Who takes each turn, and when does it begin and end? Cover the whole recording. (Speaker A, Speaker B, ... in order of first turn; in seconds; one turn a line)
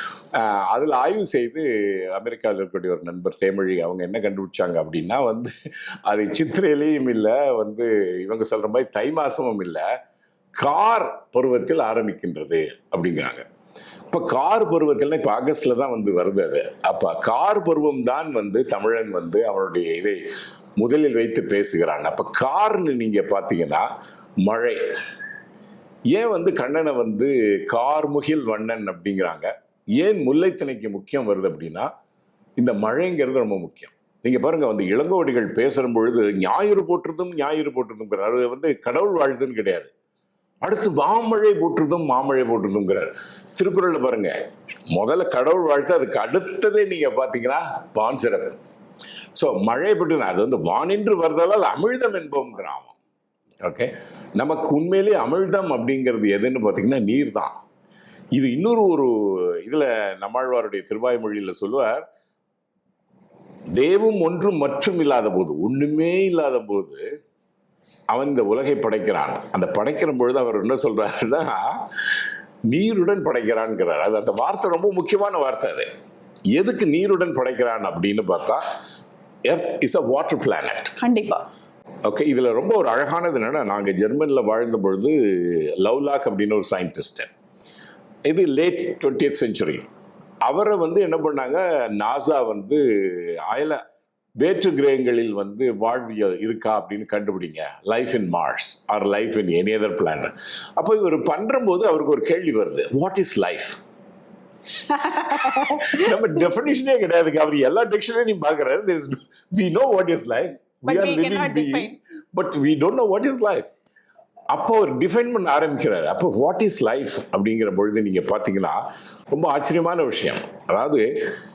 Speaker A: 0.3-5.5
Speaker A: 6.1-9.8
Speaker A: 10.6-13.4
Speaker A: 14.1-20.2
Speaker A: 20.8-23.9
Speaker A: 24.4-24.8
Speaker A: 26.1-31.9
Speaker A: 32.6-39.9
Speaker A: 40.6-44.3
Speaker A: 44.9-48.6
Speaker A: 49.4-53.0
Speaker A: 53.6-57.5
Speaker A: 58.4-62.0
Speaker A: 63.7-67.0
Speaker A: 68.1-71.8
Speaker A: 72.7-75.9
Speaker A: 76.5-78.6
Speaker A: 79.5-81.0
Speaker B: 81.0-81.4
Speaker A: 82.0-87.3
Speaker A: 88.3-89.8
Speaker A: 90.4-93.8
Speaker A: 94.4-103.8
Speaker B: 104.8-106.1
Speaker A: 105.4-113.7
Speaker B: 110.8-112.0
Speaker A: 114.5-121.0